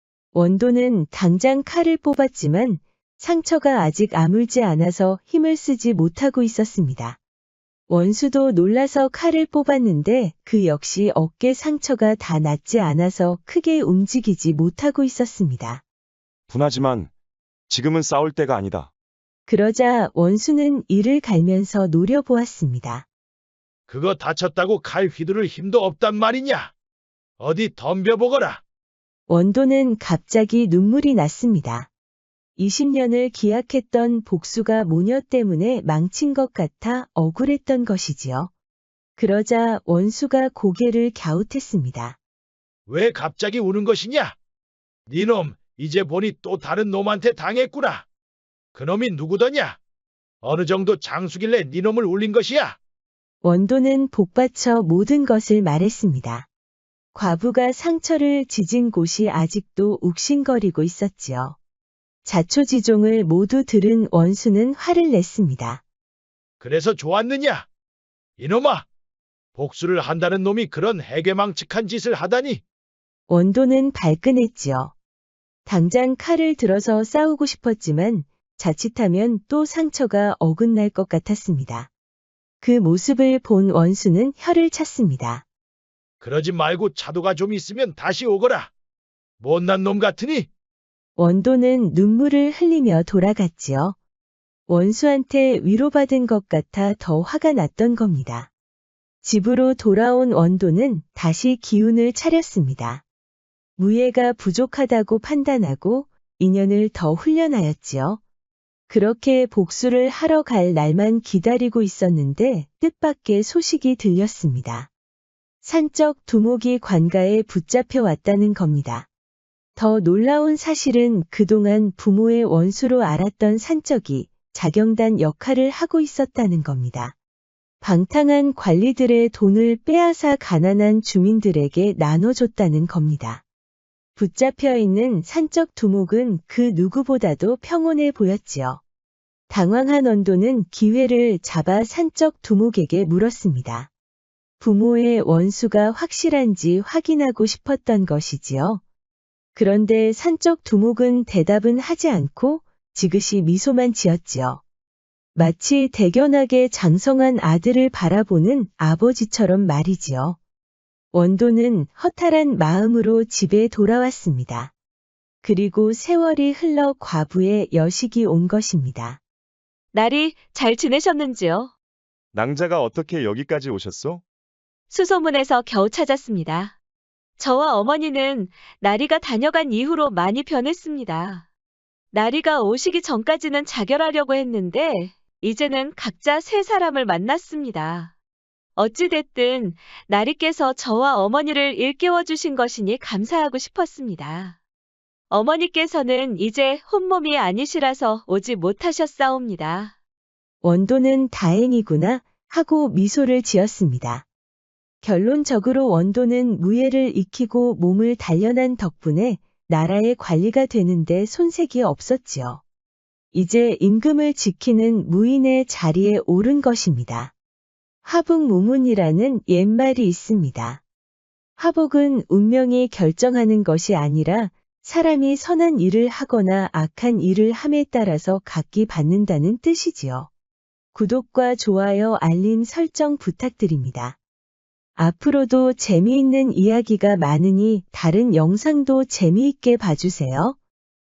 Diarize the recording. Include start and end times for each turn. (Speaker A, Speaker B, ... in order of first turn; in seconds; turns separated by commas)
Speaker A: 0.3-7.2, Speaker A: 7.9-15.8, Speaker B: 16.5-17.1, Speaker B: 17.7-18.9, Speaker A: 19.5-23.1, Speaker C: 23.9-26.7, Speaker C: 27.4-28.6, Speaker A: 29.3-31.9, Speaker A: 32.6-38.5, Speaker A: 39.2-42.2, Speaker C: 42.9-44.4, Speaker C: 45.1-48.0, Speaker C: 48.8-49.8, Speaker C: 50.4-52.8, Speaker A: 53.4-56.5, Speaker A: 57.1-61.6, Speaker A: 62.2-65.8, Speaker C: 66.6-67.7, Speaker C: 68.4-68.8, Speaker C: 69.5-72.6, Speaker A: 73.3-74.9, Speaker A: 75.7-81.9, Speaker A: 82.6-85.4, Speaker C: 86.2-88.7, Speaker C: 89.4-90.5, Speaker A: 91.2-94.0, Speaker A: 94.7-98.5, Speaker A: 99.2-103.0, Speaker A: 103.8-108.2, Speaker A: 108.9-114.9, Speaker A: 115.6-119.1, Speaker A: 119.8-127.2, Speaker A: 127.8-133.4, Speaker A: 134.2-138.8, Speaker A: 139.5-143.9, Speaker A: 144.6-148.8, Speaker A: 149.5-154.6, Speaker A: 155.3-160.4, Speaker A: 161.1-164.7, Speaker A: 165.4-169.2, Speaker D: 169.9-171.7, Speaker B: 172.3-174.2, Speaker D: 174.9-176.8, Speaker D: 177.4-181.4, Speaker D: 182.1-188.1, Speaker D: 188.8-194.6, Speaker D: 195.3-199.9, Speaker A: 200.6-204.2, Speaker A: 205.0-212.6, Speaker A: 213.3-217.3, Speaker A: 218.0-220.8, Speaker A: 221.6-230.3, Speaker A: 230.9-234.2, Speaker A: 235.0-240.6